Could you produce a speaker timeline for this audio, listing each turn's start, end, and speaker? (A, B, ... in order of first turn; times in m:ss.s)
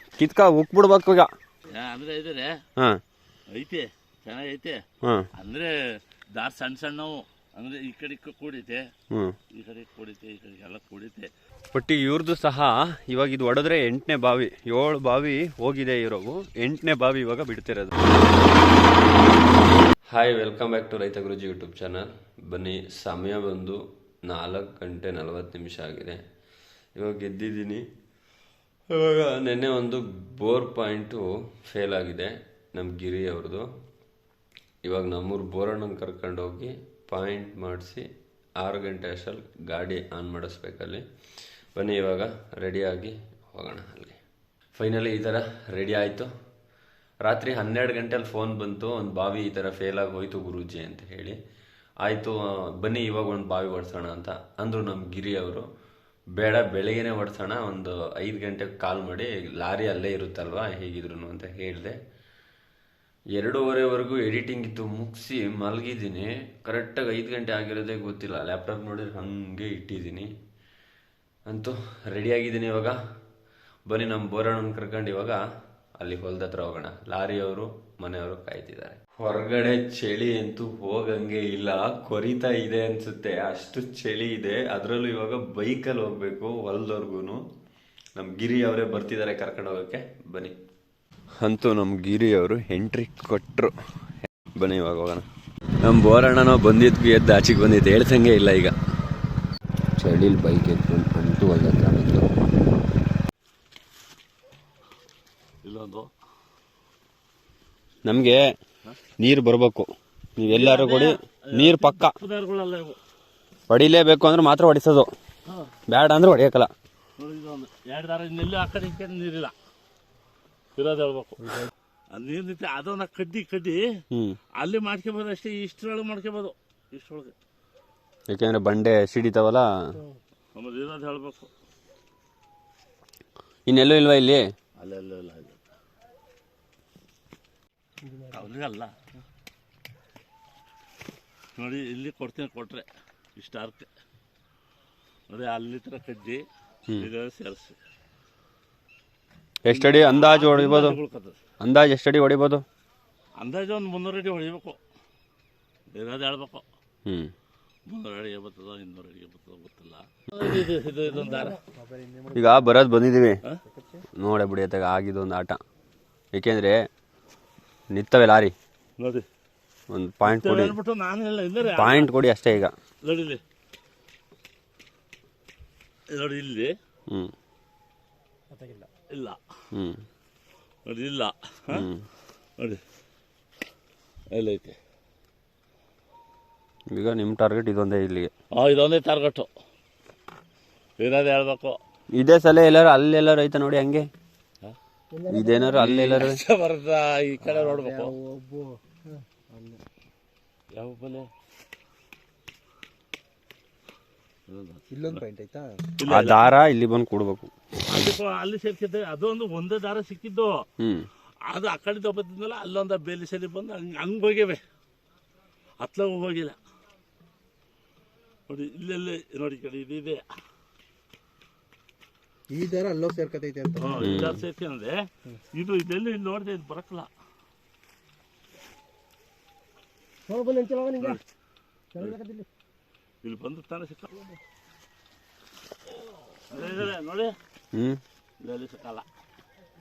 0:00.2-0:01.3 A
0:01.7-0:02.5 B
0:03.5-0:04.8 B
0:05.4-0:05.7 B
0:06.3-0:08.9 B
0:09.5-0:11.3 B
0:11.7-0:18.0 A
0:20.1-0:26.2 A
0:27.0-0:27.8 A
0:28.9-0:33.6 A
0:34.8-0:38.1 A
0:38.6-0:41.0 A
0:41.8-0:44.2 A
0:44.8-0:46.3 A
0:47.2-0:51.4 A
0:52.0-0:55.7 A
0:56.4-1:02.0 A
1:03.4-1:10.3 A
1:11.5-1:13.0 A
1:13.9-1:15.4 A
1:16.0-1:27.4 A
1:28.2-1:30.6 A
1:31.4-1:33.7 A
1:34.6-1:35.2 A
1:35.8-1:38.7 A
1:40.0-1:42.3 A
1:45.6-1:46.1 B
1:48.0-1:48.5 A
1:49.2-1:52.2 A
1:50.5-1:53.0 B
1:53.7-1:55.1 A
1:55.9-1:56.7 A
1:57.2-1:59.5 B
2:00.8-2:03.9 B
2:04.6-2:07.3 B
2:08.3-2:09.9 A
2:10.6-2:11.5 B
2:13.7-2:14.4 A
2:14.8-2:15.6 B
2:18.1-2:18.3 C
2:18.3-2:18.9 B
2:21.6-2:22.9 B
2:23.4-2:23.9 B
2:25.3-2:27.8 B
2:29.6-2:31.0 A
2:29.7-2:31.4 B
2:31.6-2:32.6 A
2:33.4-2:34.8 B
2:35.9-2:36.6 B
2:37.1-2:37.3 A
2:37.9-2:41.6 B
2:41.9-2:42.3 C
2:42.4-2:43.4 A
2:44.2-2:45.6 A
2:46.3-2:46.8 A
2:47.9-2:48.6 A
2:49.0-2:49.3 B
2:49.9-2:50.8 A
2:50.2-2:52.1 B
2:51.7-2:52.8 A
2:53.0-2:53.4 B
2:56.1-2:56.8 B
2:58.6-2:58.9 C
2:59.1-2:59.4 B
2:59.7-3:00.0 A
3:00.9-3:01.9 B
3:01.7-3:02.0 A
3:04.3-3:04.8 B
3:06.9-3:08.3 A
3:08.5-3:09.5 B
3:11.0-3:11.8 B
3:12.1-3:14.1 A
3:15.2-3:15.6 C
3:15.3-3:16.4 A
3:15.7-3:18.2 B
3:18.1-3:18.8 C
3:20.8-3:21.3 B
3:24.5-3:25.2 B
3:25.3-3:25.7 C
3:26.0-3:26.5 B
3:26.1-3:27.5 A
3:27.9-3:30.6 B
3:30.8-3:31.1 A
3:31.5-3:34.6 B
3:35.8-3:36.6 B
3:38.5-3:40.2 B
3:42.5-3:43.9 C
3:43.8-3:47.1 B
3:44.0-3:44.4 A
3:50.3-3:51.1 C
3:51.0-3:51.2 B
3:52.0-3:52.5 C
3:53.2-3:54.4 B
3:56.4-3:57.4 B
3:57.7-3:58.0 A
3:58.4-3:59.1 B